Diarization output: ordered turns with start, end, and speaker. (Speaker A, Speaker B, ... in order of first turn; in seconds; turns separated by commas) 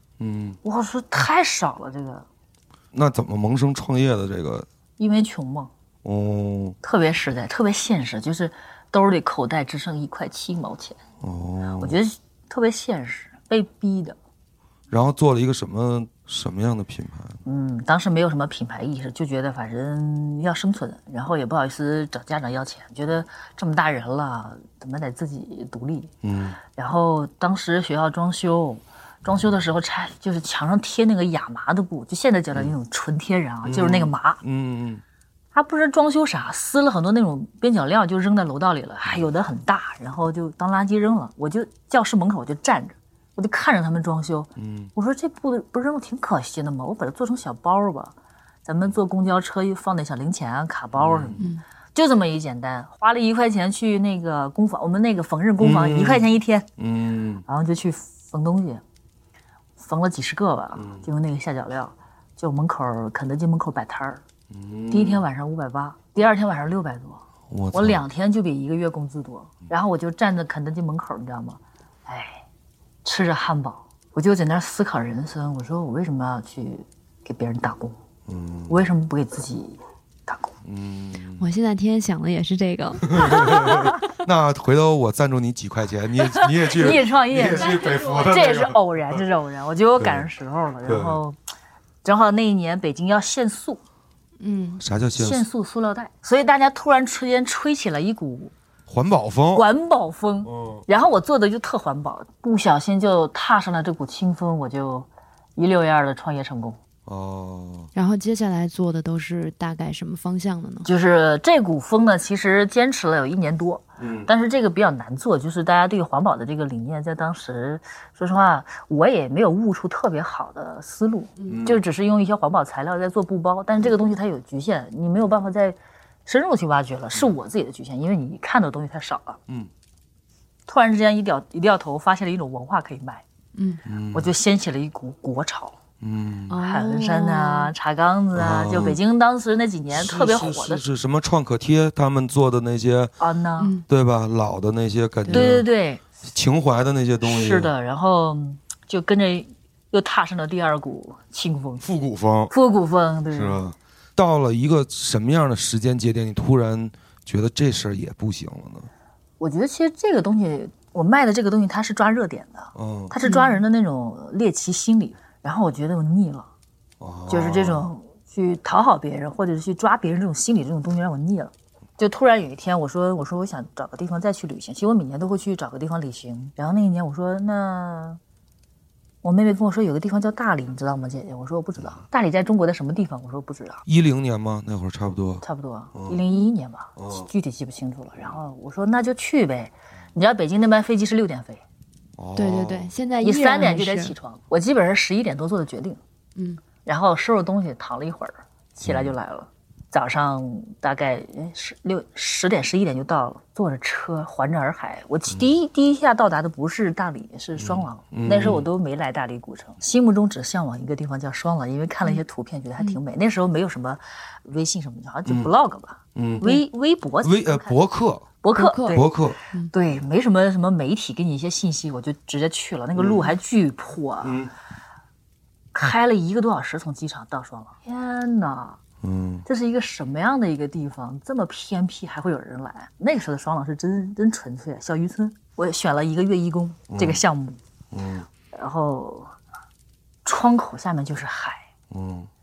Speaker A: 0.2-0.6, Speaker B: 0.6-2.3, Speaker A: 2.9-4.7, Speaker B: 5.0-5.7, Speaker A: 6.0-6.8, Speaker B: 6.8-11.0, Speaker A: 11.2-12.0, Speaker B: 11.7-14.2, Speaker A: 14.9-17.4, Speaker B: 17.4-26.1, Speaker A: 26.2-26.6, Speaker B: 26.8-34.4, Speaker A: 33.6-35.0, Speaker B: 35.5-48.1, Speaker A: 44.6-44.9, Speaker B: 48.6-56.7, Speaker A: 51.0-51.4, Speaker A: 55.6-56.3, Speaker A: 56.8-57.4, Speaker B: 57.5-58.8, Speaker B: 59.8-64.2, Speaker A: 60.8-61.0, Speaker A: 64.5-65.2, Speaker B: 64.9-72.5, Speaker A: 67.5-68.0, Speaker B: 73.0-78.0, Speaker A: 78.3-78.9, Speaker B: 78.7-80.6, Speaker A: 80.6-81.5, Speaker C: 81.4-84.1, Speaker A: 83.1-89.2, Speaker B: 86.4-91.4, Speaker C: 87.5-88.3, Speaker A: 90.0-90.3, Speaker A: 90.8-91.2, Speaker B: 92.0-93.8, Speaker C: 94.4-94.8, Speaker A: 94.8-95.5, Speaker B: 95.2-98.5, Speaker A: 98.9-99.7, Speaker B: 99.5-106.8, Speaker A: 100.5-100.8, Speaker A: 107.1-107.9, Speaker C: 108.0-110.9, Speaker B: 110.8-129.4, Speaker A: 114.0-114.3, Speaker A: 121.5-121.8, Speaker B: 130.7-133.2, Speaker C: 133.6-133.8, Speaker A: 133.8-134.3, Speaker B: 134.1-135.8, Speaker A: 136.0-136.6, Speaker C: 136.5-137.7, Speaker B: 136.6-140.8, Speaker A: 138.3-139.0, Speaker A: 139.9-143.1, Speaker B: 143.2-143.7, Speaker C: 143.6-143.8, Speaker A: 143.9-145.7, Speaker C: 145.3-145.6, Speaker B: 145.3-146.0, Speaker A: 146.2-147.7, Speaker B: 147.2-151.8, Speaker A: 151.8-152.5, Speaker B: 152.5-153.6, Speaker A: 153.3-158.9, Speaker B: 159.4-166.5, Speaker A: 162.8-163.1, Speaker C: 163.2-163.6, Speaker A: 167.0-167.9, Speaker B: 167.3-178.2, Speaker B: 179.2-183.8, Speaker A: 183.9-186.2, Speaker B: 185.4-191.6, Speaker A: 187.0-187.3, Speaker A: 192.2-192.9, Speaker C: 192.4-194.2, Speaker B: 193.2-196.0, Speaker C: 196.4-196.6, Speaker B: 196.8-217.8, Speaker A: 198.9-199.1, Speaker A: 207.6-208.7, Speaker A: 215.3-215.5, Speaker A: 216.2-216.5, Speaker A: 217.2-218.3, Speaker B: 218.4-219.1, Speaker C: 218.6-219.7, Speaker A: 218.9-219.4, Speaker B: 219.7-224.4, Speaker A: 223.0-223.3, Speaker A: 224.2-224.5, Speaker B: 225.7-228.8, Speaker A: 229.0-229.4, Speaker B: 229.5-237.6, Speaker A: 236.9-237.2, Speaker A: 237.9-238.3, Speaker B: 238.5-239.3, Speaker B: 240.2-241.7, Speaker A: 241.9-242.3